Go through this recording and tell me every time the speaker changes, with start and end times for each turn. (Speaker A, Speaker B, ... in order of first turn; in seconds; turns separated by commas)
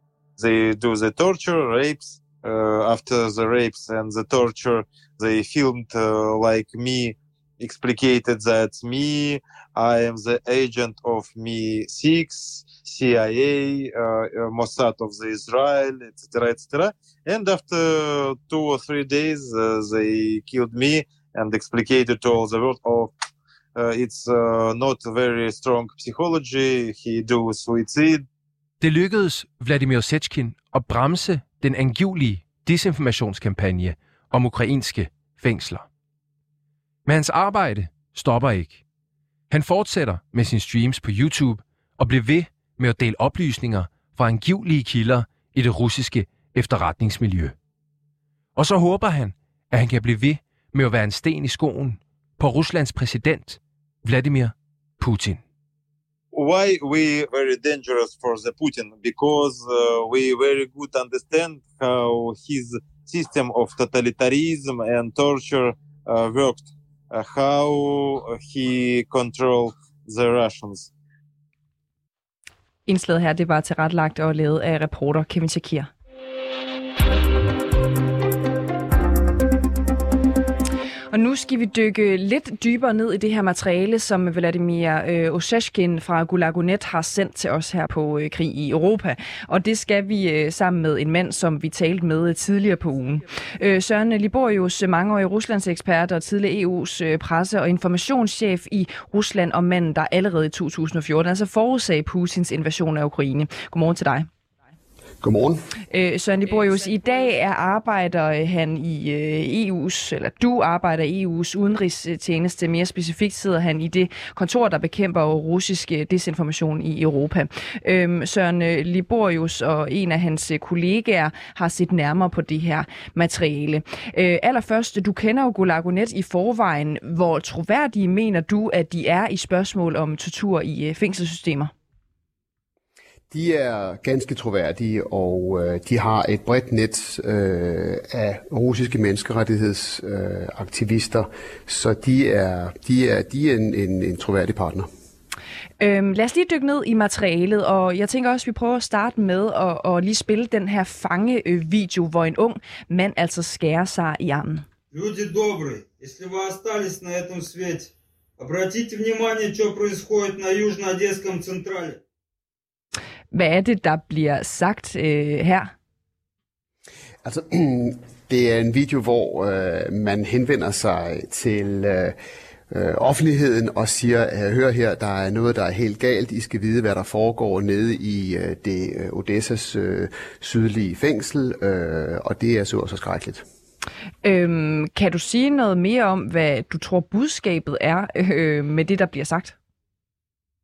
Speaker A: 0.4-23.1, Speaker A: 23.8-28.2, Speaker B: 28.8-35.9, Speaker B: 37.0-38.8, Speaker B: 39.5-47.5, Speaker B: 48.5-55.4, Speaker A: 56.3-70.9, Speaker C: 72.9-75.9, Speaker C: 81.1-104.3, Speaker D: 105.2-105.6, Speaker C: 105.9-131.7, Speaker D: 133.3-144.9, Speaker C: 145.8-154.7, Speaker E: 154.9-162.0, Speaker C: 163.3-165.7, Speaker D: 167.2-172.2, Speaker D: 172.7-183.4, Speaker C: 184.2-189.5